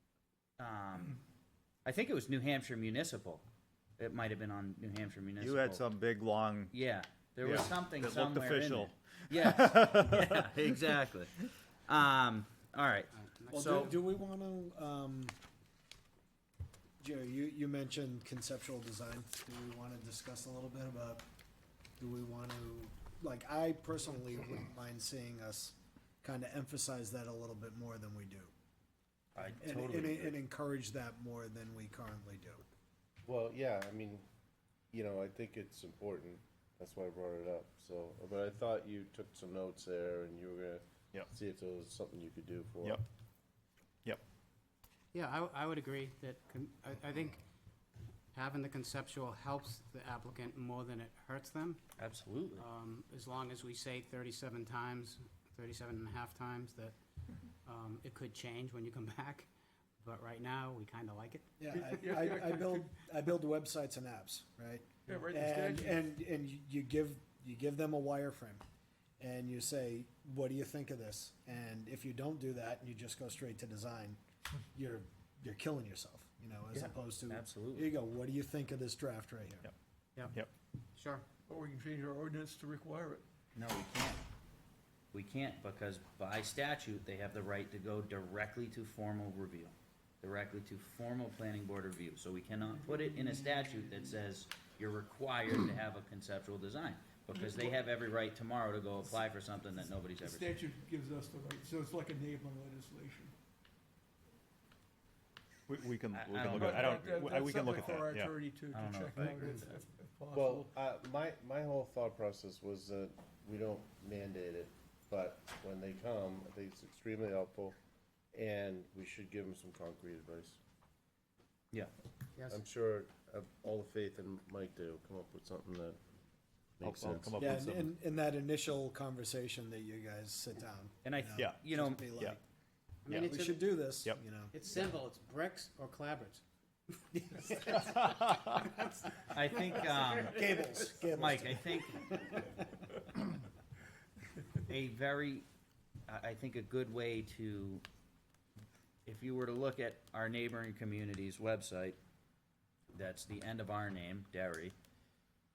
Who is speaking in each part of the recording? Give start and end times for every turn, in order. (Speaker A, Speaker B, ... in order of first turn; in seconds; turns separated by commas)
Speaker A: 0.6-1.2, Speaker A: 1.8-3.4, Speaker A: 4.0-5.9, Speaker B: 5.4-6.7, Speaker A: 6.7-14.0, Speaker B: 7.4-10.7, Speaker C: 13.1-13.9, Speaker D: 13.5-15.3, Speaker D: 17.0-21.2, Speaker D: 22.0-28.5, Speaker A: 29.3-30.4, Speaker D: 29.4-32.6, Speaker E: 33.2-34.2, Speaker E: 34.9-43.0, Speaker C: 45.1-47.4, Speaker C: 48.3-51.8, Speaker A: 52.0-52.6, Speaker C: 52.6-56.9, Speaker C: 57.6-59.5, Speaker C: 60.0-61.5, Speaker D: 61.6-68.6, Speaker F: 61.7-62.9, Speaker F: 65.1-66.0, Speaker D: 69.2-74.2, Speaker D: 74.7-79.7, Speaker A: 76.7-77.9, Speaker C: 80.9-81.2, Speaker F: 81.5-83.2, Speaker A: 83.5-84.2, Speaker A: 85.1-100.5, Speaker F: 92.7-94.2, Speaker F: 97.3-97.8, Speaker F: 100.2-103.3, Speaker B: 105.7-108.3, Speaker A: 106.1-107.1, Speaker F: 106.4-110.7, Speaker A: 108.7-109.6, Speaker E: 110.3-117.8, Speaker E: 118.3-120.6, Speaker E: 122.5-126.0, Speaker E: 126.8-127.5, Speaker B: 126.8-127.9, Speaker D: 127.4-132.4, Speaker A: 131.0-132.1, Speaker C: 133.0-133.7, Speaker D: 133.1-134.5, Speaker C: 134.5-136.4, Speaker C: 137.0-140.9, Speaker A: 139.3-140.4, Speaker D: 140.2-142.6, Speaker A: 141.1-142.0, Speaker A: 144.6-145.4, Speaker A: 146.1-147.8, Speaker A: 149.1-152.0, Speaker A: 152.9-154.7